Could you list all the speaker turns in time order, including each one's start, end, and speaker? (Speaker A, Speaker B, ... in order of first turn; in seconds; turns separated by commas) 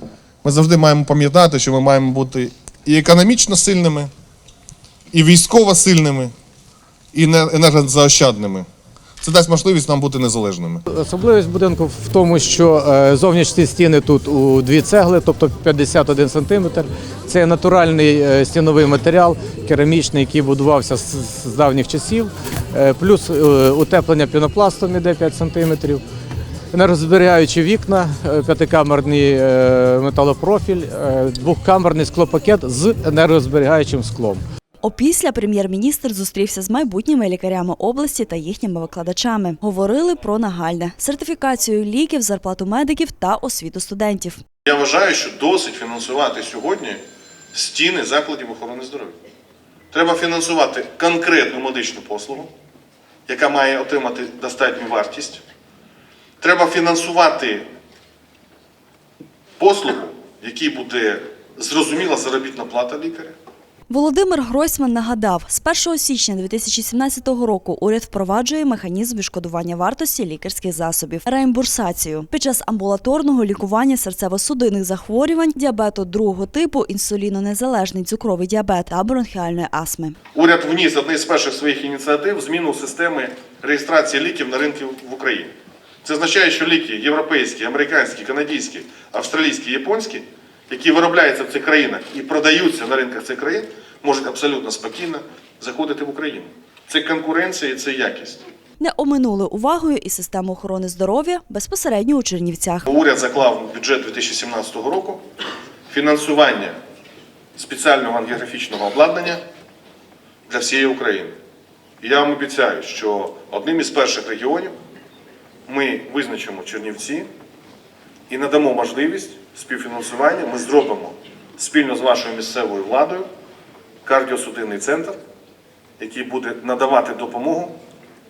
Speaker A: 0.4-4.1, Speaker A: 5.1-6.3, Speaker A: 7.1-8.7, Speaker A: 9.2-10.8, Speaker B: 10.9-26.0, Speaker B: 26.7-34.4, Speaker C: 34.8-44.4, Speaker A: 44.6-47.0, Speaker A: 47.5-49.2, Speaker A: 49.9-52.5, Speaker A: 53.3-55.4, Speaker A: 56.4-57.6, Speaker A: 59.6-63.3, Speaker C: 63.9-80.2, Speaker A: 80.3-85.5, Speaker A: 86.0-98.4, Speaker C: 98.8-102.9, Speaker A: 102.9-105.2, Speaker A: 105.9-106.7, Speaker A: 107.5-109.4, Speaker A: 110.5-111.3, Speaker A: 112.0-114.7, Speaker A: 115.7-117.3, Speaker A: 118.3-123.3, Speaker A: 124.0-125.2, Speaker A: 126.0-127.7